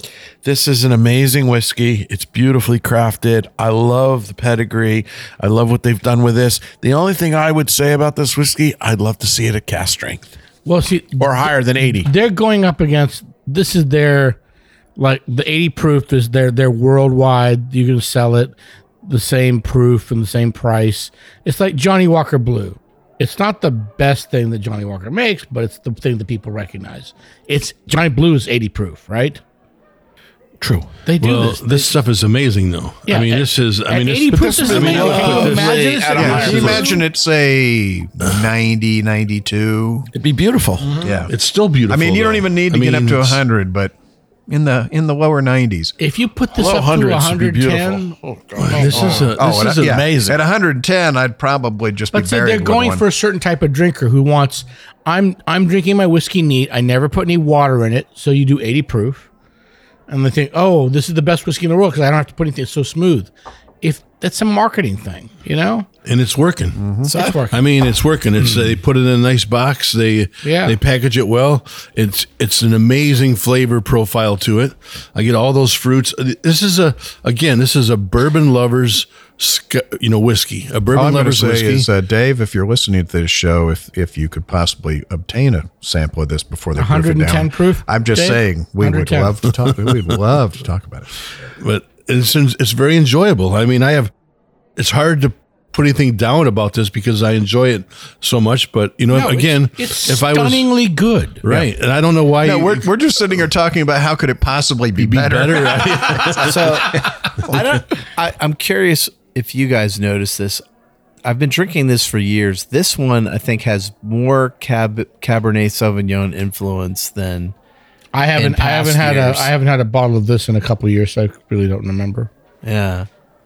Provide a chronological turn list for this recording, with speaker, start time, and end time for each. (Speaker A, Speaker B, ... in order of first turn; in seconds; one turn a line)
Speaker A: 0.4-10.3
Speaker B: 10.7-14.4
Speaker A: 11.2-12.1
Speaker B: 14.9-29.4
Speaker A: 30.6-30.9
Speaker B: 31.1-31.9
Speaker C: 31.2-35.8
Speaker B: 33.1-37.0
Speaker A: 34.4-37.0
Speaker D: 35.0-36.7
Speaker E: 36.1-40.1
Speaker A: 40.1-41.0
Speaker E: 41.0-41.3
Speaker C: 41.2-43.4
Speaker E: 41.9-43.9
Speaker E: 44.5-45.9
Speaker B: 46.0-48.1
Speaker A: 46.5-50.4
Speaker C: 48.6-50.2
Speaker B: 48.7-49.2
Speaker E: 49.3-53.0
Speaker B: 52.1-59.3
Speaker B: 60.1-63.3
Speaker B: 63.8-65.9
Speaker C: 66.0-81.9
Speaker E: 66.7-67.1
Speaker B: 67.0-67.6
Speaker B: 70.4-70.8
Speaker E: 80.9-91.2
Speaker B: 86.8-89.3
Speaker C: 91.6-94.1
Speaker C: 94.8-100.7
Speaker B: 99.1-101.4
Speaker C: 101.4-102.9
Speaker E: 101.5-101.7
Speaker E: 102.4-107.6
Speaker C: 105.0-106.9
Speaker D: 106.4-110.6
Speaker D: 111.2-117.5
Speaker B: 118.1-122.3
Speaker D: 118.3-119.5
Speaker D: 122.6-123.1